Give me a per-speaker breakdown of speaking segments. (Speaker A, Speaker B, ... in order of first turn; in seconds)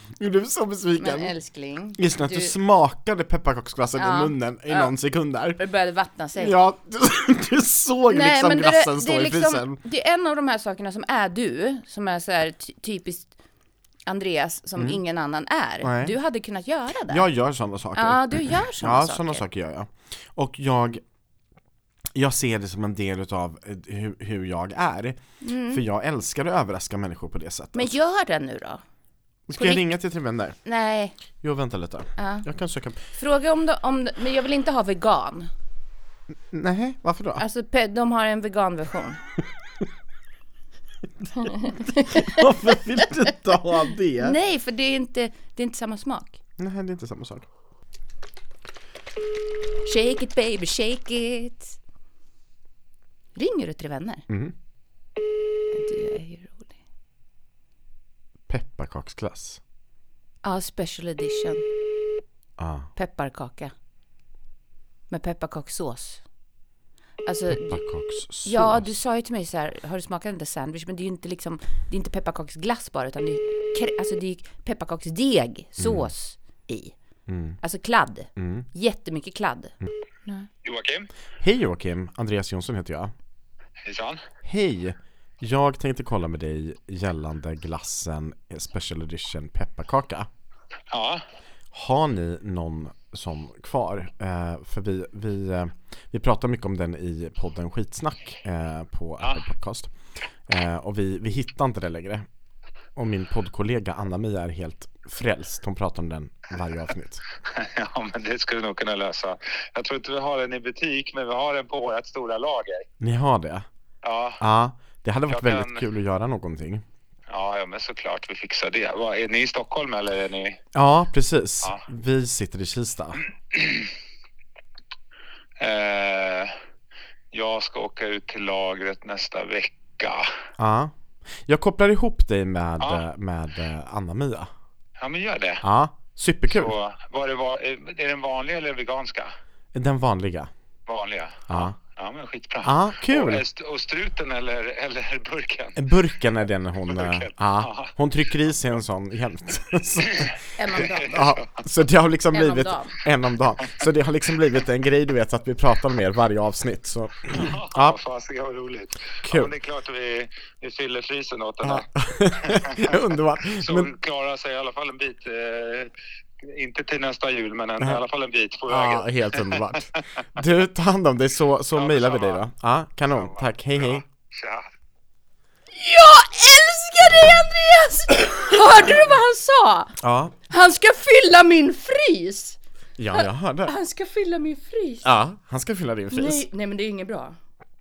Speaker A: 0.2-1.3, 2.0-5.6, 6.4-9.8, 15.8-16.1, 17.1-21.0, 22.1-27.9, 29.5-30.6, 31.4-33.0, 36.5-37.4, 41.2-44.4, 46.6-47.5, 54.3-54.5, 58.5-59.6, 62.6-62.9, 67.5-68.9, 75.8-76.1, 77.3-77.6, 78.3-78.7, 81.4-83.1, 84.4-90.3, 91.7-99.9, 100.5-102.2, 103.0-107.2, 113.0-113.7, 114.4-116.8, 120.7-123.2, 130.6-134.5, 135.6-136.7, 139.7-140.5, 141.5-141.7, 142.6-143.4, 145.8-158.0, 159.2-159.5, 161.6-163.9, 168.7-174.0, 180.0-180.3, 183.0-183.7, 185.0-186.4
Speaker B: 1.0-2.5, 4.0-4.9, 5.6-6.5, 8.1-13.3, 14.1-17.2, 17.9-19.4, 25.4-25.8, 27.7-28.8, 29.5-29.9, 30.6-31.1, 32.2-32.5, 33.1-35.5, 37.4-39.2, 41.4-43.3, 44.2-46.4, 49.8-51.8, 53.3-54.2, 55.7-56.8, 60.4-61.6, 63.0-63.7, 65.1-66.2, 67.2-67.8, 68.4-76.9, 77.6-80.5, 150.6-151.2, 152.3-153.0, 175.7-180.0, 180.5-182.6, 183.1-185.1, 186.1-187.4
Speaker C: 80.6-81.1, 83.8-84.2, 90.9-91.2, 107.5-112.9, 114.0-114.4, 115.3-115.8, 117.3-120.6, 123.5-123.9, 125.6-126.5, 127.3-130.3, 135.0-135.6, 136.5-139.3, 140.9-145.8, 146.9-147.9, 150.2-151.4, 157.3-163.0, 163.5-170.0, 171.7-172.4, 173.1-174.7